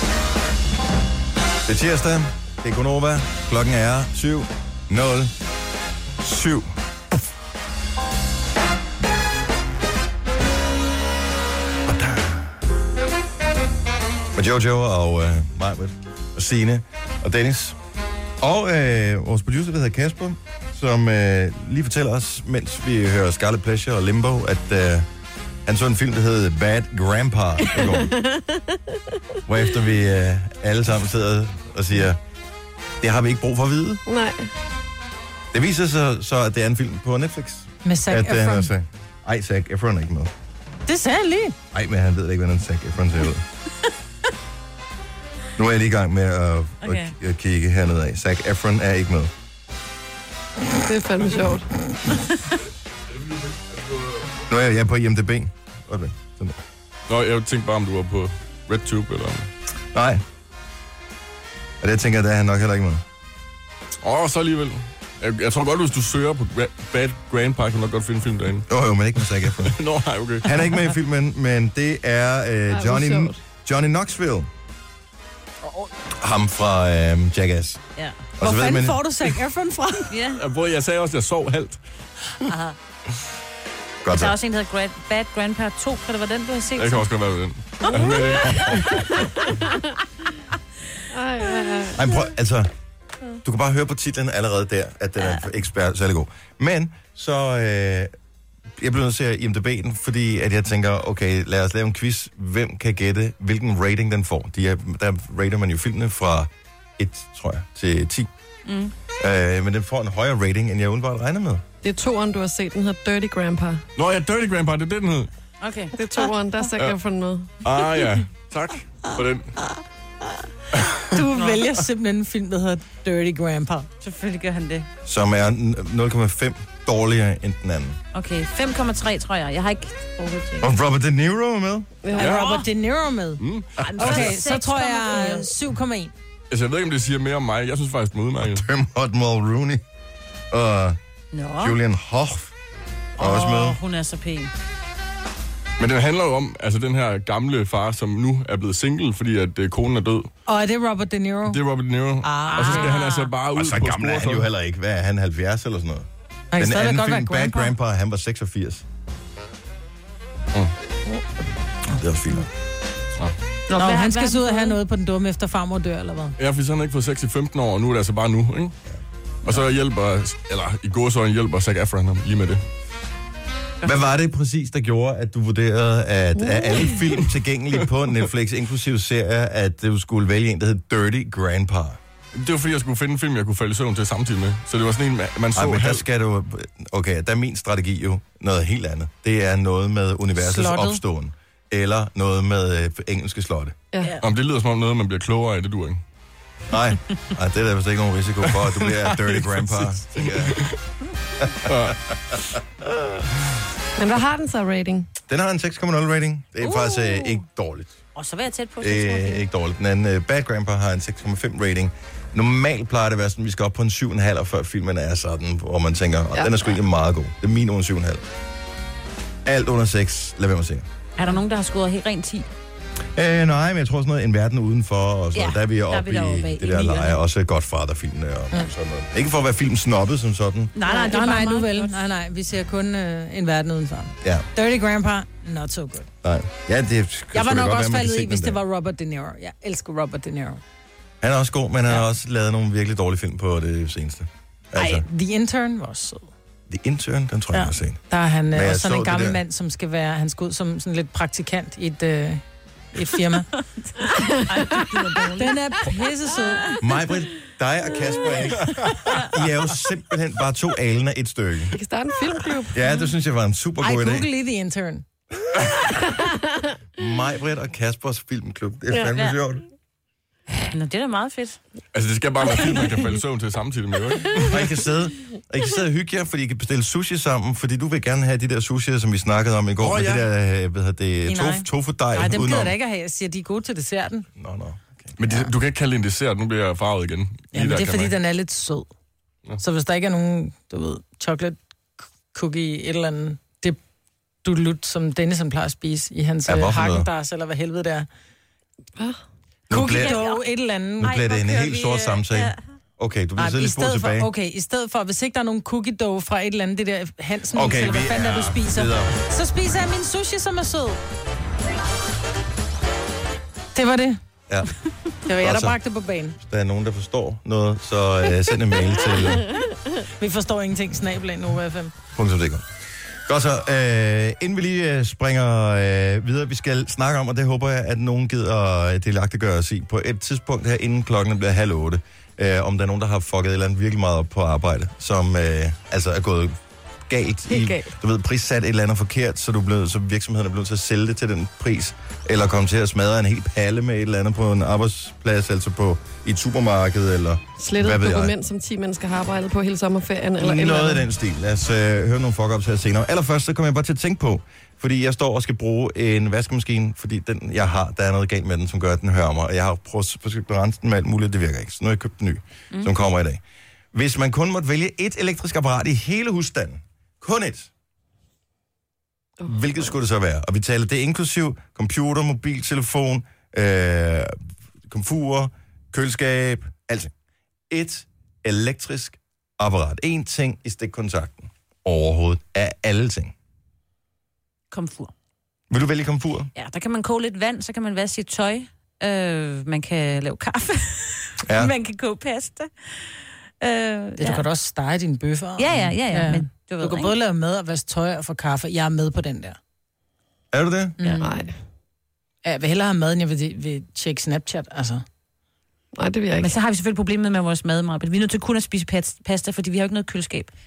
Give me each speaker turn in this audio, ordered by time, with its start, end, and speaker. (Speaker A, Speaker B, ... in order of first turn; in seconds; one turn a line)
Speaker A: 1.6-5.3
Speaker A: 6.2-6.8
Speaker A: 11.8-12.6
Speaker A: 14.3-17.8
Speaker A: 18.4-25.1
Speaker A: 25.6-28.1
Speaker B: 27.9-29.0
Speaker A: 29.5-32.2
Speaker A: 33.0-34.0
Speaker B: 34.1-34.5
Speaker A: 35.5-40.3
Speaker C: 37.8-38.7
Speaker C: 40.9-41.5
Speaker A: 41.7-43.4
Speaker A: 45.5-49.3
Speaker D: 46.8-47.1
Speaker B: 50.8-51.7
Speaker E: 53.3-54.2
Speaker A: 54.5-56.6
Speaker E: 57.1-59.5
Speaker A: 59.9-60.2
Speaker A: 61.8-63.0
Speaker E: 64.0-68.7
Speaker A: 68.7-69.8
Speaker E: 69.6-70.6
Speaker A: 70.4-74.5
Speaker B: 72.7-73.4
Speaker A: 76.2-77.8
Speaker A: 78.4-79.0
Speaker C: 78.4-80.1
Speaker D: 80.1-80.4
Speaker E: 80.3-81.8
Speaker D: 82.5-82.7
Speaker A: 84.0-84.3
Speaker D: 84.1-87.1
Speaker E: 86.8-89.0
Speaker B: 91.1-92.1
Speaker A: 91.9-92.7
Speaker A: 93.4-98.1
Speaker A: 98.8-108.3
Speaker D: 108.7-108.9
Speaker A: 109.2-111.6
Speaker B: 111.8-113.8
Speaker E: 114.0-115.3
Speaker D: 115.6-115.9
Speaker B: 116.0-117.5
Speaker E: 117.6-119.6
Speaker C: 121.1-123.9
Speaker D: 121.3-121.6
Speaker D: 124.0-124.9
Speaker A: 125.0-128.0
Speaker D: 128.1-130.7
Speaker A: 130.6-131.9
Speaker B: 132.0-132.3
Speaker C: 132.2-133.4
Speaker E: 132.2-132.4
Speaker D: 132.2-132.6
Speaker E: 133.4-134.3
Speaker D: 133.8-135.5
Speaker C: 134.0-136.1
Speaker E: 136.5-138.6
Speaker A: 138.4-139.8
Speaker A: 140.5-141.0
Speaker D: 141.3-141.8
Speaker A: 141.6-142.5
Speaker A: 143.2-143.8
Speaker D: 143.2-144.5
Speaker E: 145.8-150.3
Speaker C: 150.4-151.6
Speaker E: 151.5-154.5
Speaker C: 152.2-153.2
Speaker D: 152.5-153.2
Speaker A: 153.5-158.8
Speaker C: 156.5-157.7
Speaker A: 161.9-162.5
Speaker D: 163.7-164.8
Speaker C: 163.7-166.3
Speaker E: 166.4-168.7
Speaker E: 169.4-172.6
Speaker A: 173.8-182.0
Speaker B: 176.4-177.0
Speaker E: 182.4-186.0
Speaker A: 185.5-193.7
Speaker C: 190.4-191.0
Speaker B: 193.9-194.2
Speaker E: 194.2-196.0
Speaker A: 196.7-200.7
Speaker E: 198.5-200.7
Speaker E: 201.7-202.0
Speaker A: 201.7-203.1
Speaker B: 204.0-205.1
Speaker A: 205.3-208.0
Speaker D: 206.6-207.3
Speaker D: 208.1-209.4
Speaker A: 208.8-218.2
Speaker A: 219.4-220.8
Speaker D: 221.2-222.5
Speaker A: 223.1-230.7
Speaker D: 225.3-227.2
Speaker D: 230.7-231.9
Speaker C: 230.8-236.0
Speaker A: 236.2-238.6
Speaker C: 237.3-240.6
Speaker A: 241.2-245.0
Speaker C: 244.8-246.3
Speaker A: 246.7-248.0
Speaker C: 247.5-253.5
Speaker A: 248.5-249.4
Speaker D: 253.6-256.8
Speaker C: 255.4-256.6
Speaker A: 256.8-261.7
Speaker B: 261.7-262.8
Speaker A: 262.7-264.3
Speaker C: 263.8-265.1
Speaker B: 265.9-266.4
Speaker A: 267.0-269.6
Speaker D: 270.7-271.6
Speaker E: 271.9-274.5
Speaker A: 274.5-282.7
Speaker E: 279.8-280.3
Speaker C: 281.2-284.3
Speaker A: 284.4-285.1
Speaker E: 285.2-288.2
Speaker C: 287.5-288.9
Speaker C: 289.6-291.6
Speaker C: 292.3-293.8
Speaker C: 294.4-298.1
Speaker A: 296.5-297.1
Speaker A: 299.7-300.2
Speaker C: 299.7-301.1
Speaker D: 299.7-300.4
Speaker A: 301.0-304.3
Speaker D: 301.0-302.6
Speaker C: 303.4-311.0
Speaker A: 307.5-309.1
Speaker C: 313.7-314.2
Speaker C: 315.2-316.4
Speaker A: 315.4-315.8
Speaker A: 316.4-319.5
Speaker B: 319.1-319.6
Speaker C: 320.2-321.9
Speaker A: 322.1-322.6
Speaker A: 323.2-348.3
Speaker B: 337.5-337.9
Speaker B: 347.6-351.0
Speaker A: 350.4-363.4
Speaker A: 363.9-367.7
Speaker A: 369.5-374.4
Speaker A: 374.9-377.1
Speaker A: 377.7-383.3
Speaker D: 384.7-385.1
Speaker A: 385.7-386.5
Speaker D: 386.5-394.4
Speaker A: 391.4-391.7
Speaker C: 394.2-399.6
Speaker D: 395.6-397.1
Speaker A: 400.5-401.0
Speaker C: 401.0-401.4
Speaker B: 401.2-401.5
Speaker C: 402.4-405.0
Speaker B: 405.9-406.5
Speaker D: 406.4-410.5